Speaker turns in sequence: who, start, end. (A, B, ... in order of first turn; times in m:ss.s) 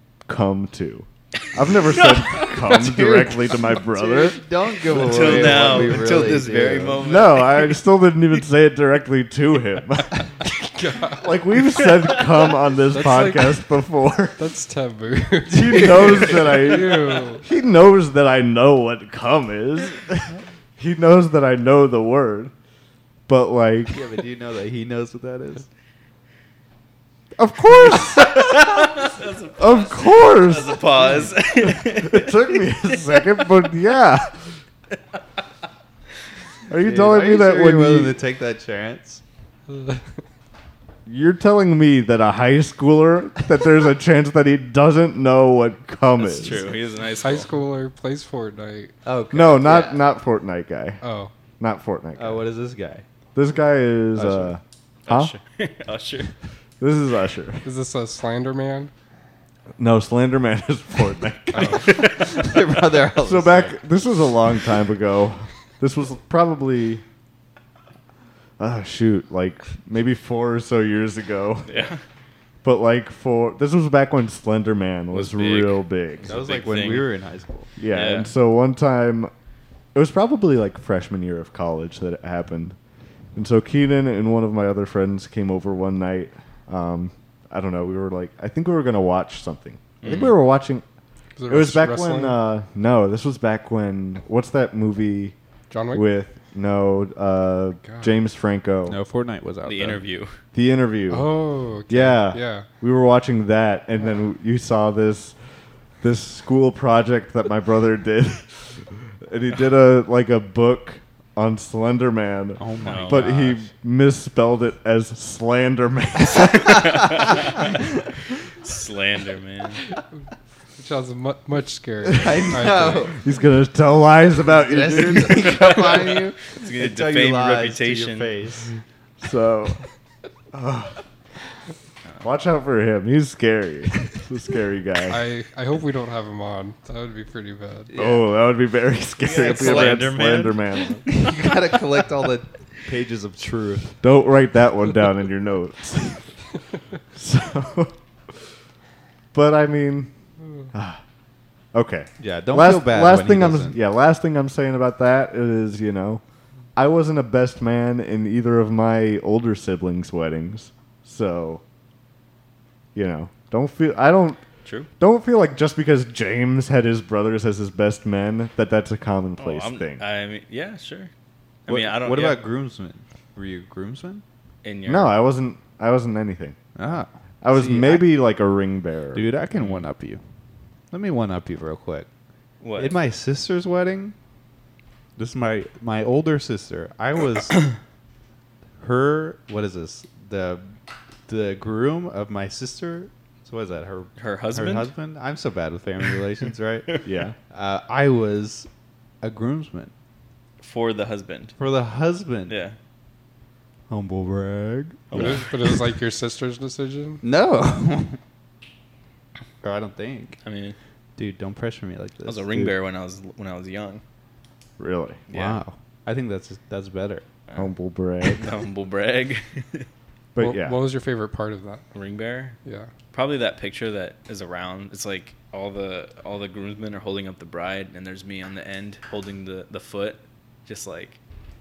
0:00.3-0:04.4 A
0:01.9-0:02.6 B
0:02.6-0:07.0 C
0:04.9-0:07.8 B
0:05.0-0:06.1 A
0:07.0-0:10.3 A
0:10.8-0:11.3 D
0:11.1-0:14.4 A
0:11.8-0:12.3 B
0:12.9-0:13.6 D
0:14.4-0:17.4 D
0:15.5-0:22.5 A
0:15.8-0:16.5 C
0:23.3-0:24.0 A
0:23.9-0:25.7 C
0:27.4-0:28.8 A
0:27.9-0:33.6 B
0:29.6-0:31.1 A
0:31.6-0:34.6 A
0:36.7-0:38.2 A
0:36.8-0:39.2 C
0:39.7-0:40.1 D
0:41.1-0:46.6 A
0:46.2-0:47.5 B
0:47.2-0:48.9 D
0:49.0-0:50.0 C
0:49.3-0:51.0 A
0:51.0-0:51.3 D
0:51.6-0:52.4 A
0:52.2-0:53.0 C
0:53.4-0:55.3 A
0:54.2-0:54.6 C
0:55.1-0:56.3 B
0:56.8-0:57.6 A
0:57.6-0:58.9 D
0:59.8-1:02.0 A
1:01.5-1:01.9 D
1:01.7-1:02.4 B
1:01.9-1:03.8 C
1:03.2-1:07.0 A
1:08.6-1:11.9 A
1:11.7-1:12.0 B
1:12.6-1:16.3 A
1:15.1-1:17.1 B
1:16.2-1:17.7 C
1:17.8-1:19.3 A
1:17.9-1:18.3 B
1:19.9-1:22.8 A
1:23.4-1:30.8 A
1:30.0-1:30.4 B
1:31.4-1:32.4 D
1:31.5-1:35.4 A
1:35.7-1:36.0 D
1:35.9-1:39.0 A
1:37.8-1:38.1 D
1:38.9-1:40.0 C
1:39.6-1:40.4 B
1:40.5-1:41.3 A
1:41.1-1:42.7 D
1:41.9-1:45.4 A
1:46.0-1:57.3 A
1:52.6-1:53.6 C
1:52.8-1:53.3 B
1:56.5-1:57.8 B
1:58.6-1:59.8 B
2:00.8-2:03.2 D
2:02.1-2:03.2 C
2:03.1-2:05.7 A
2:04.5-2:08.7 C
2:05.4-2:08.3 B
2:09.2-2:09.8 A
2:10.5-2:11.0 A
2:12.2-2:15.2 A
2:15.1-2:17.9 D
2:17.9-2:18.2 C
2:18.0-2:21.2 A
2:19.2-2:20.1 C
2:19.2-2:20.6 B
2:21.1-2:24.0 C
2:24.0-2:26.3 A
2:27.1-2:27.9 A
2:29.3-2:30.1 A
2:30.7-2:31.0 A
2:31.7-2:36.2 A
2:32.2-2:33.8 C
2:36.8-2:41.6 A
2:43.0-2:44.4 A
2:45.0-2:50.0 A
2:49.4-2:51.1 B
2:51.7-2:52.4 B
2:51.7-2:54.2 C
2:54.6-2:55.2 B
2:54.9-2:56.6 A
2:56.8-2:58.1 C
2:57.4-2:59.2 A
2:59.1-3:00.2 C
2:59.6-2:59.8 B
3:00.9-3:02.1 C
3:02.6-3:03.0 B
3:02.8-3:04.2 C
3:05.2-3:07.7 C
3:08.8-3:10.8 C
3:11.3-3:17.0 C
3:14.2-3:14.9 B
3:17.0-3:17.4 A
3:17.5-3:18.7 C
3:19.2-3:19.9 C
3:20.6-3:21.6 B
3:21.6-3:22.6 C
3:22.5-3:22.8 B
3:23.9-3:25.1 C
3:25.1-3:25.5 B
3:25.1-3:27.2 D
3:27.2-3:28.2 C
3:29.6-3:30.4 C
3:30.4-3:30.8 B
3:31.2-3:32.5 C
3:32.3-3:34.0 B
3:34.8-3:35.2 A
3:35.3-3:35.6 B
3:35.3-3:37.2 C
3:37.6-3:38.4 A
3:38.2-3:39.9 B
3:40.4-3:40.8 A
3:40.4-3:41.8 D
3:41.9-3:42.6 B
3:42.6-3:42.9 D
3:43.1-3:51.2 B